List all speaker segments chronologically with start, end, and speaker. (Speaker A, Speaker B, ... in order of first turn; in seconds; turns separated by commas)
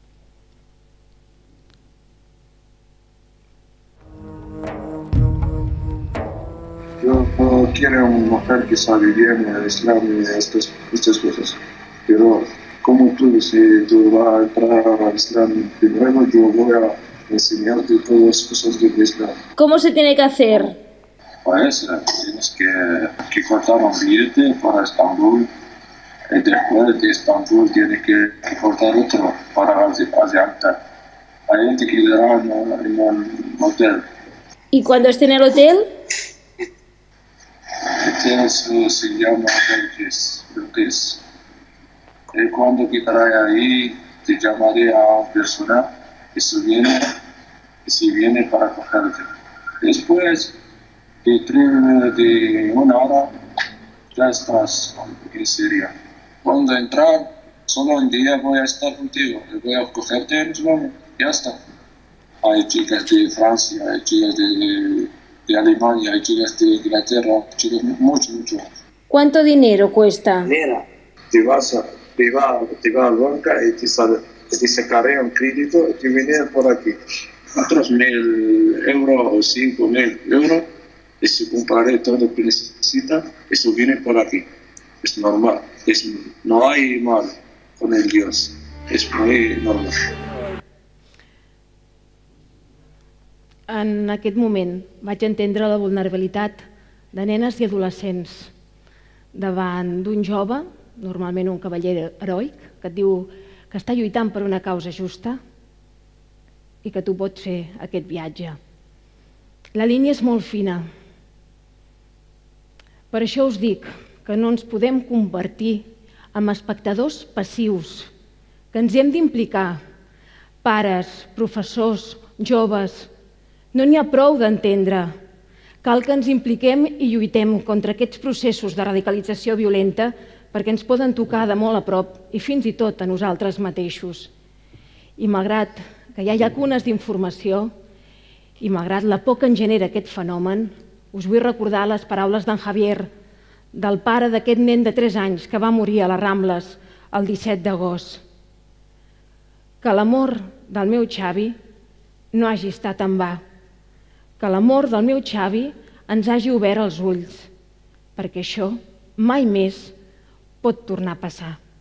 Speaker A: 7.0-19.4, Speaker B: 19.6-20.7, Speaker C: 19.9-20.4, Speaker A: 21.4-25.5, Speaker A: 26.3-30.8, Speaker A: 31.5-34.0, Speaker B: 34.7-35.8, Speaker A: 37.7-41.2, Speaker A: 42.4-47.0, Speaker A: 47.9-49.2, Speaker A: 49.8-50.5, Speaker A: 51.2-53.3, Speaker A: 54.1-55.9, Speaker A: 56.4-61.6, Speaker A: 62.4-68.6, Speaker B: 69.1-70.3, Speaker A: 70.4-77.0, Speaker A: 77.6-80.7, Speaker A: 81.2-84.4, Speaker A: 85.0-87.3, Speaker A: 87.8-89.9, Speaker C: 93.7-96.6, Speaker C: 97.1-98.5, Speaker C: 99.3-105.4, Speaker C: 106.8-108.6, Speaker C: 109.8-110.9, Speaker C: 113.1-118.1, Speaker C: 118.7-119.8, Speaker C: 120.6-123.1, Speaker C: 123.7-125.1, Speaker C: 125.8-134.3, Speaker C: 135.2-137.7, Speaker C: 138.6-143.1, Speaker C: 143.7-148.2, Speaker C: 149.8-151.6, Speaker C: 152.3-153.4, Speaker C: 154.4-157.5, Speaker C: 158.1-159.9, Speaker C: 160.6-161.6